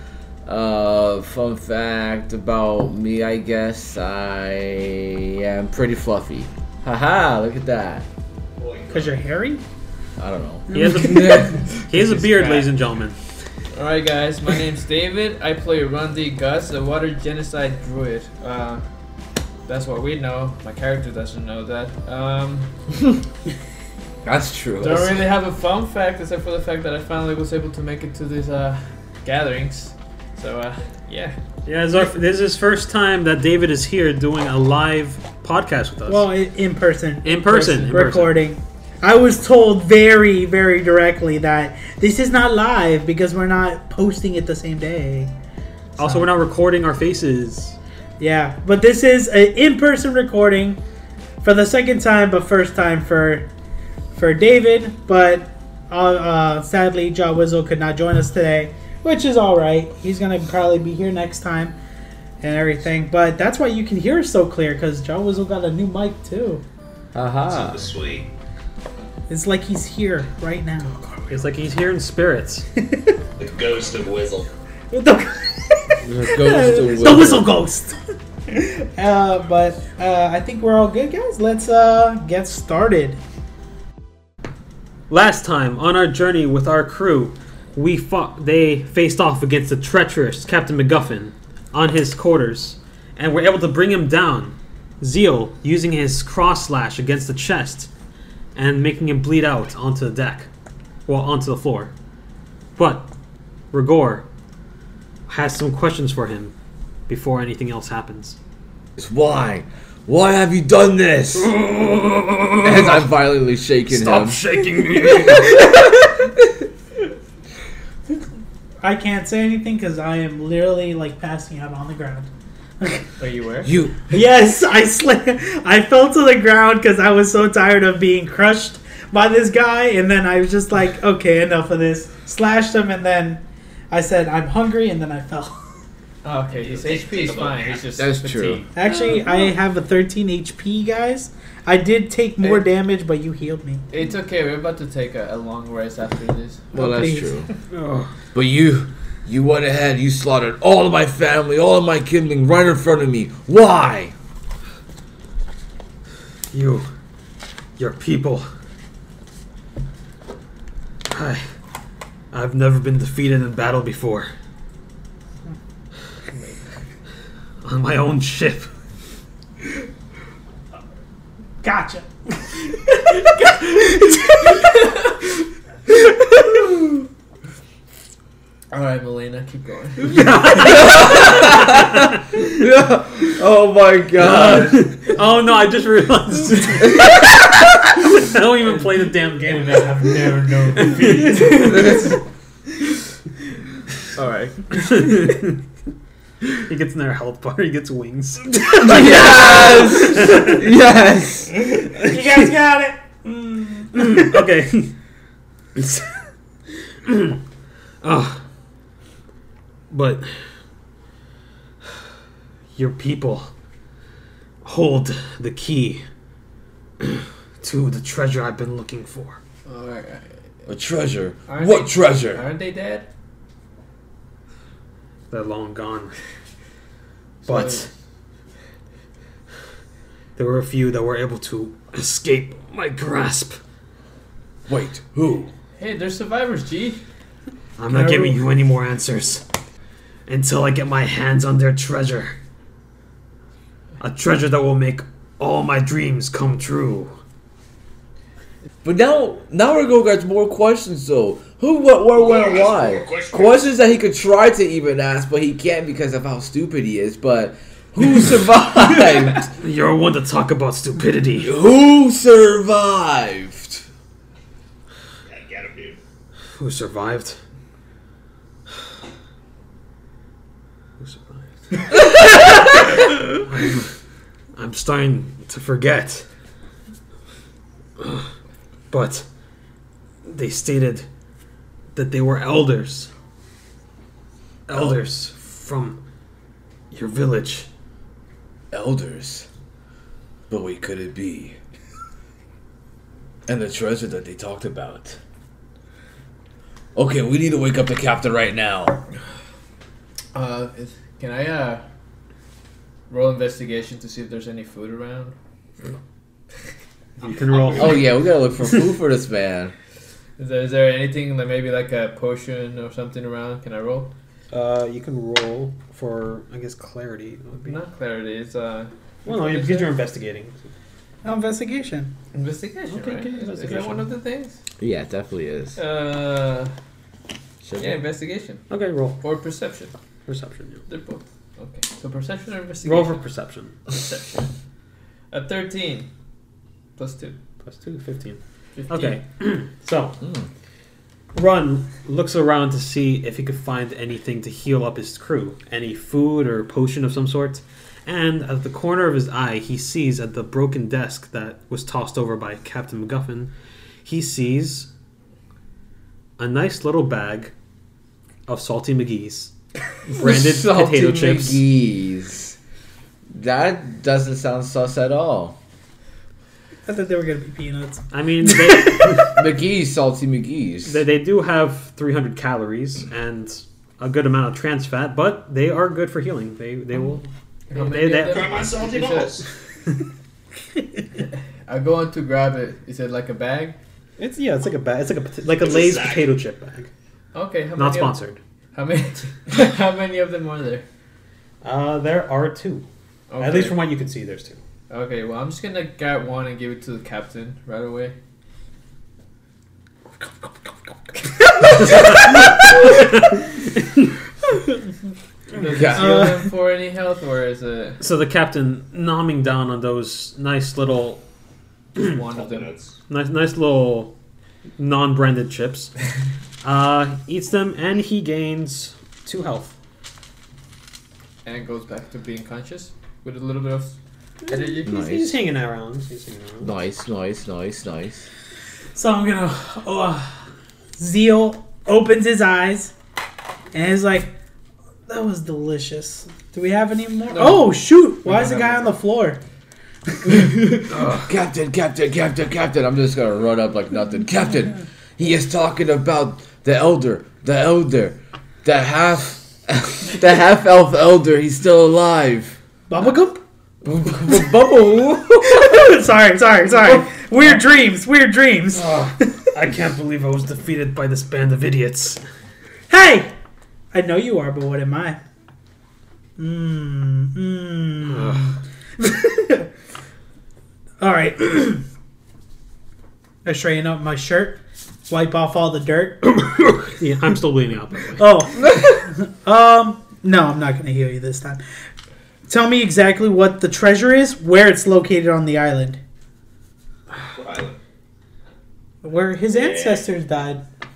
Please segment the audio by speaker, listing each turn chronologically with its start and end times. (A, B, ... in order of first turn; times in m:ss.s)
0:00.4-0:08.0 A
0:08.6-0:09.1 B
0:08.9-0:09.6 C
0:10.2-0:11.5 A
0:10.7-0:13.2 D
0:10.7-0:11.4 C
0:11.9-0:12.7 E
0:13.7-0:18.8 E
0:19.6-0:22.7 E
0:24.2-0:25.2 A
0:24.8-0:31.4 E
0:31.6-0:36.3 D
0:36.1-0:45.3 C
0:37.2-0:38.4 D
0:37.4-0:38.0 E
0:46.0-0:47.8 D
0:48.2-0:50.8 C
0:51.4-0:53.5 C
0:54.1-1:01.7 C
1:02.4-1:06.6 C
1:07.1-1:07.8 A
1:07.5-1:08.3 B
1:09.3-1:11.0 C
1:11.0-1:11.3 E
1:11.3-1:12.6 D
1:12.8-1:13.2 C
1:13.4-1:14.5 B
1:14.9-1:23.2 C
1:16.0-1:17.5 A
1:25.1-1:37.9 D
1:38.5-1:40.5 D
1:41.0-1:41.9 D
1:42.8-1:43.1 D
1:43.7-1:44.2 D
1:45.3-1:46.5 D
1:47.1-1:48.4 D
1:49.0-1:51.5 A
1:51.4-1:53.1 D
1:52.6-1:54.4 A
1:53.9-1:55.8 D
1:58.8-2:02.3 C
2:02.8-2:03.1 C
2:03.2-2:03.7 E
2:03.6-2:04.0 A
2:04.1-2:15.6 C
2:16.2-2:19.1 E
2:16.5-2:17.8 B
2:18.0-2:18.6 A
2:18.7-2:23.8 C
2:23.9-2:27.2 E
2:26.7-2:27.5 A
2:26.9-2:27.3 C
2:27.7-2:28.1 D
2:28.3-2:34.1 A
2:36.5-2:36.9 D
2:37.8-2:38.5 D
2:41.1-2:41.4 D
2:42.3-2:44.3 D
2:46.3-2:46.6 E
2:47.6-2:48.7 D
2:51.6-2:52.1 C
2:53.1-2:55.3 E
2:53.6-2:54.7 C
2:58.7-3:01.3 E
3:00.0-3:02.1 D
3:00.6-3:04.9 A
3:04.2-3:10.0 D
3:08.6-3:12.0 E
3:10.7-3:11.7 D
3:11.5-3:12.2 A
3:14.1-3:15.3 E
3:14.8-3:15.6 D
3:16.5-3:20.6 D
3:18.8-3:21.6 A
3:21.9-3:24.4 C
3:23.9-3:24.9 D
3:25.8-3:26.1 D
3:27.0-3:27.4 D
3:28.0-3:28.4 D
3:29.9-3:30.4 D
3:32.8-3:33.5 D
3:34.6-3:36.0 D
3:37.0-3:39.4 D
3:39.6-3:40.4 E
3:40.6-3:42.4 A
3:41.5-3:43.1 E
3:45.3-3:46.1 D
3:47.4-3:47.9 E
3:47.4-3:47.9 D
3:50.4-3:53.6 D
3:54.7-3:55.5 A
3:55.8-3:57.0 E
3:57.8-3:59.4 D
3:57.9-3:58.4 C
4:00.3-4:02.3 D
4:04.0-4:07.1 D
4:08.8-4:19.5 A
4:12.1-4:13.7 B
4:19.5-4:21.5 D
4:21.4-4:23.8 A
4:25.3-4:26.0 B
4:26.6-4:27.4 D
4:31.0-4:31.4 D
4:32.8-4:33.9 D
4:34.6-4:36.3 D
4:38.0-4:38.2 D
4:38.9-4:39.2 D
4:40.3-4:41.1 D
4:41.9-4:43.1 D
4:44.7-4:46.0 D
4:46.9-4:47.7 D
4:48.7-4:49.4 A
4:50.5-4:51.6 A
4:53.5-4:55.2 A
4:56.9-4:59.0 A
5:00.3-5:01.8 E
5:03.1-5:05.3 E
5:07.2-5:08.1 D
5:07.8-5:09.7 A
5:10.4-5:14.1 E
5:14.5-5:17.8 D
5:17.6-5:20.0 E
5:19.2-5:20.6 D
5:21.2-5:22.1 C
5:22.3-5:24.6 E
5:22.9-5:24.0 D
5:24.8-5:25.8 A
5:25.8-5:26.7 E
5:27.6-5:27.9 A
5:27.8-5:28.7 E
5:28.7-5:29.2 D
5:29.2-5:29.9 E
5:30.2-5:30.8 D
5:30.9-5:33.2 E
5:32.8-5:33.7 D
5:33.9-5:34.5 E
5:35.3-5:36.1 E
5:37.0-5:37.4 E
5:37.6-5:38.4 D
5:38.8-5:39.2 E
5:38.9-5:40.2 D
5:40.2-5:40.5 A
5:41.3-5:53.5 D
5:54.0-5:54.9 D
5:56.4-5:57.5 D
5:58.5-5:59.5 D
6:00.1-6:01.6 D
6:00.1-6:02.6 A
6:03.3-6:05.6 A
6:06.9-6:09.2 C
6:08.1-6:09.4 D
6:09.3-6:11.0 A
6:10.8-6:18.6 D
6:17.7-6:19.4 E
6:18.3-6:19.5 B
6:21.6-6:23.8 E
6:24.2-6:26.9 D
6:25.6-6:26.3 B
6:27.3-6:28.2 E
6:27.8-6:28.4 D
6:28.7-6:30.8 E
6:31.6-6:32.8 D
6:33.3-6:33.8 E
6:33.4-6:34.6 D
6:34.9-6:38.1 E
6:41.8-6:42.6 C
6:41.8-6:43.4 D
6:45.5-6:48.0 E
6:45.7-6:46.3 A
6:46.0-6:46.4 C
6:48.0-6:51.2 D
6:52.0-6:52.7 E
6:52.3-6:52.9 B
6:53.1-6:54.1 D
6:54.8-6:55.9 D
6:56.6-6:59.7 D
7:01.4-7:03.9 E
7:04.5-7:04.8 E
7:04.5-7:06.7 D
7:04.8-7:05.4 A
7:06.6-7:08.2 A
7:08.9-7:10.4 C
7:11.0-7:12.9 C
7:13.7-7:14.3 C
7:15.1-7:19.4 C
7:17.3-7:19.0 E
7:20.2-7:20.8 E
7:20.9-7:21.2 D
7:21.1-7:32.6 A
7:32.9-7:33.4 C
7:33.8-7:35.8 A
7:35.4-7:39.3 C
7:38.7-7:42.2 D
7:42.9-7:43.3 C
7:43.9-7:45.2 C
7:46.4-7:49.7 C
7:48.1-7:48.6 D
7:51.0-7:51.8 C
7:53.4-7:56.8 C
7:56.4-7:58.3 D
7:58.2-8:01.6 C
8:02.5-8:06.0 C
8:07.3-8:07.8 B
8:09.0-8:10.6 C
8:09.5-8:10.0 B